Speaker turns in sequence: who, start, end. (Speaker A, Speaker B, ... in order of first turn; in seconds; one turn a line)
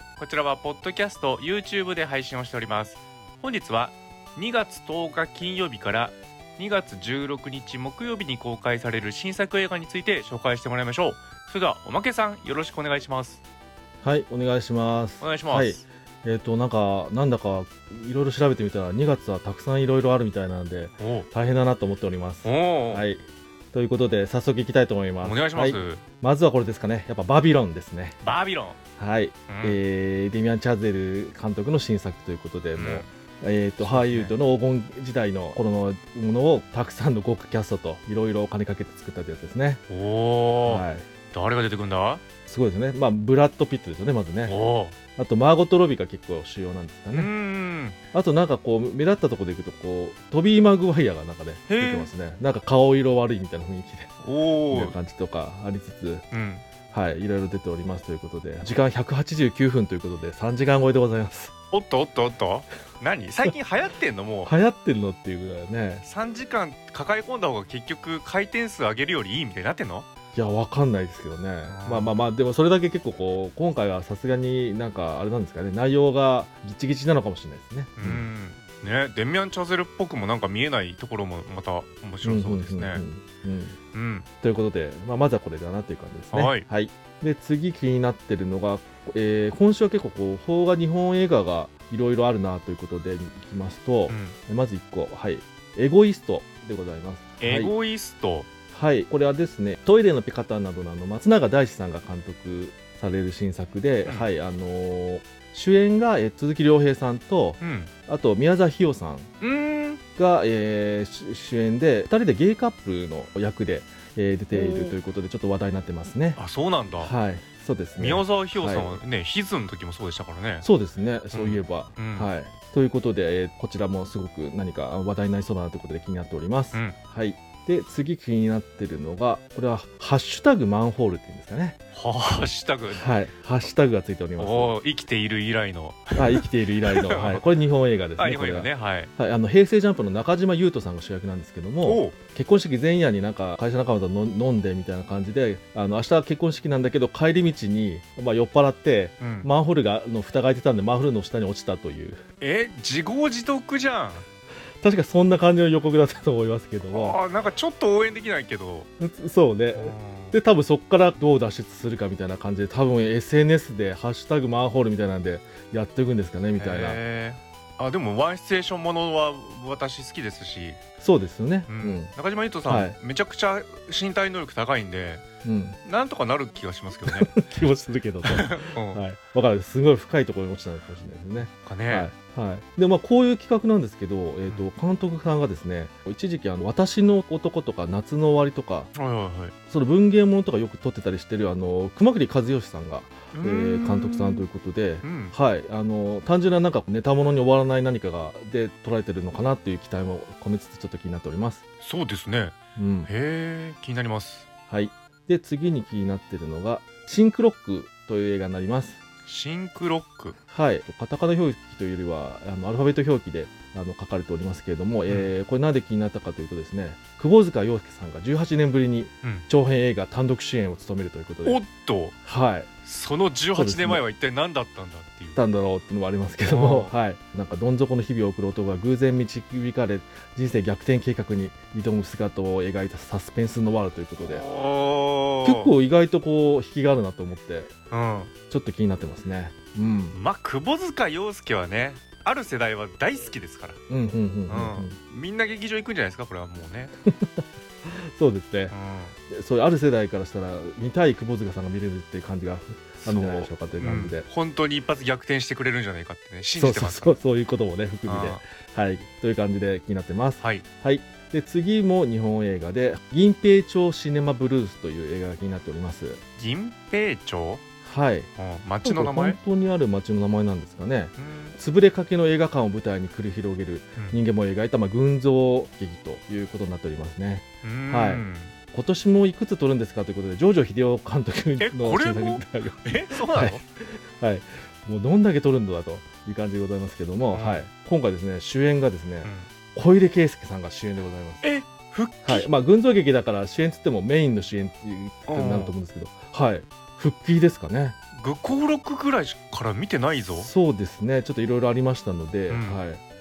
Speaker A: 0.2-13.4
Speaker B: 14.0-28.2
Speaker A: 15.2-15.8
Speaker A: 21.0-21.3
Speaker A: 22.4-23.0
Speaker A: 25.2-26.0
Speaker A: 28.2-28.8
Speaker B: 29.0-39.8
Speaker A: 29.5-29.8
Speaker A: 32.8-33.1
Speaker A: 33.8-34.3
Speaker A: 39.9-42.2
Speaker B: 40.6-41.1
Speaker B: 42.5-44.6
Speaker A: 44.5-45.0
Speaker B: 45.2-47.3
Speaker A: 47.1-48.0
Speaker B: 48.1-56.2
Speaker A: 51.7-52.1
Speaker A: 54.2-54.9
Speaker A: 56.3-56.6
Speaker B: 56.9-61.5
Speaker A: 61.7-64.5
Speaker B: 64.4-66.0
Speaker A: 66.0-70.1
Speaker B: 70.3-78.3
Speaker A: 71.7-72.2
Speaker A: 78.0-83.0
Speaker B: 82.2-83.8
Speaker A: 83.9-84.3
Speaker B: 84.4-97.7
Speaker A: 86.3-86.7
Speaker A: 94.1-94.3
Speaker A: 97.4-98.5
Speaker B: 98.7-109.3
Speaker A: 107.6-107.9
Speaker A: 109.4-110.0
Speaker B: 110.2-116.4
Speaker A: 114.5-115.0
Speaker A: 116.3-117.2
Speaker B: 117.0-119.0
Speaker A: 118.0-120.7
Speaker B: 120.6-131.8
Speaker A: 121.3-122.3
Speaker A: 131.9-133.1
Speaker B: 132.9-134.7
Speaker A: 134.4-137.4
Speaker B: 136.2-152.2
Speaker A: 138.2-139.1
Speaker A: 141.8-142.1
Speaker A: 149.2-149.5
Speaker A: 152.4-154.2
Speaker B: 154.8-157.2
Speaker A: 156.9-158.9
Speaker B: 159.0-167.0
Speaker A: 159.7-160.4
Speaker A: 166.6-170.8
Speaker B: 171.0-172.1
Speaker A: 171.7-175.2
Speaker B: 172.7-173.0
Speaker B: 175.4-175.8
Speaker A: 175.8-177.4
Speaker B: 177.1-188.9
Speaker A: 178.2-179.0
Speaker A: 181.6-182.1
Speaker A: 188.9-189.5
Speaker B: 189.7-201.6
Speaker A: 193.3-194.5
Speaker A: 195.0-195.3
Speaker A: 201.8-202.5
Speaker B: 202.8-203.1
Speaker A: 203.1-204.4
Speaker B: 204.7-209.0
Speaker A: 209.2-210.4
Speaker B: 210.5-221.6
Speaker A: 215.1-215.3
Speaker A: 221.4-222.2
Speaker B: 222.2-222.7
Speaker A: 222.8-225.4
Speaker B: 223.5-224.0
Speaker B: 225.3-234.4
Speaker A: 226.4-226.9
Speaker A: 234.2-235.7
Speaker B: 235.4-237.7
Speaker A: 237.9-238.3
Speaker B: 238.5-240.2
Speaker A: 240.1-243.8
Speaker B: 243.9-245.0
Speaker A: 244.5-246.9
Speaker B: 247.0-248.7
Speaker A: 248.7-249.2
Speaker B: 249.3-254.2
Speaker A: 253.0-257.1
Speaker B: 256.6-266.2
Speaker A: 258.0-258.4
Speaker A: 260.4-260.6
Speaker A: 266.4-267.6
Speaker B: 267.8-268.3
Speaker A: 268.4-269.4
Speaker B: 268.8-291.4
Speaker A: 271.2-271.6
Speaker A: 277.6-278.5
Speaker A: 281.6-283.6
Speaker A: 287.3-287.6
Speaker A: 289.2-289.5
Speaker A: 291.4-292.5
Speaker B: 292.2-298.0
Speaker A: 295.3-295.7
Speaker A: 298.1-300.5
Speaker B: 300.1-303.0
Speaker A: 302.5-302.8